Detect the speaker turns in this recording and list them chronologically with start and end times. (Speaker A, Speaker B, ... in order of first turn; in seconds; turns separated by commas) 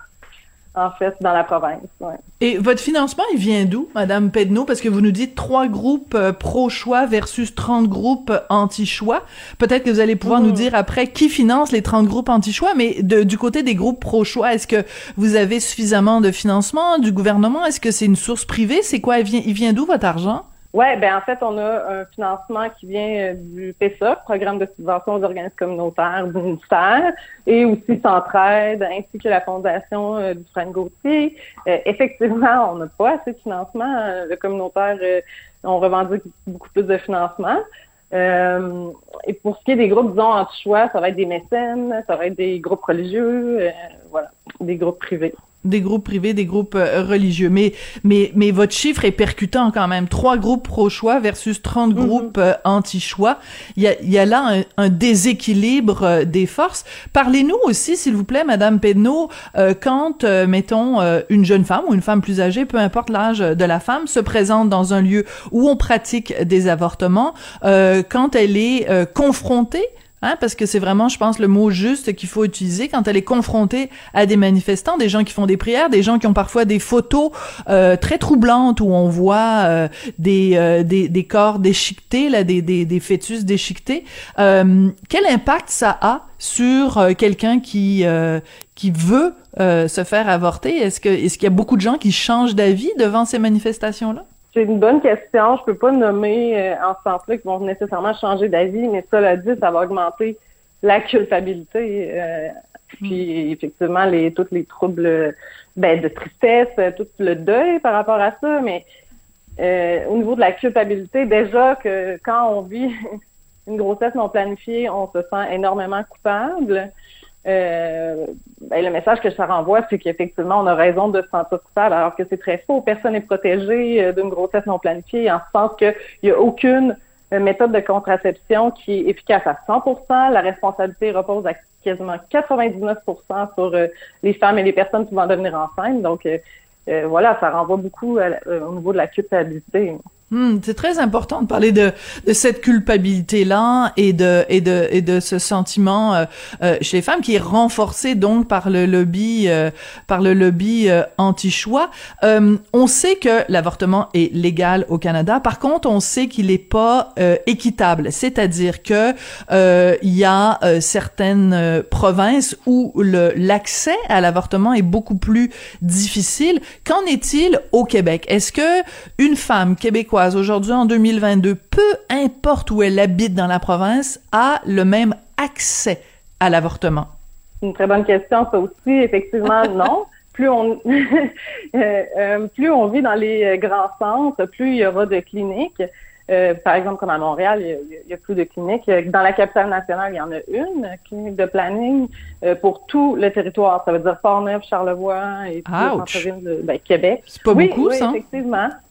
Speaker A: 0.8-2.2, Speaker B: 2.4-20.4, Speaker A: 10.2-10.7, Speaker A: 20.7-45.4, Speaker B: 45.6-94.2, Speaker A: 52.0-52.3, Speaker A: 94.5-108.8, Speaker A: 109.6-112.9, Speaker A: 113.7-116.9, Speaker A: 117.5-140.0, Speaker B: 140.3-177.1, Speaker A: 177.6-198.7, Speaker B: 195.7-196.3, Speaker B: 197.3-198.2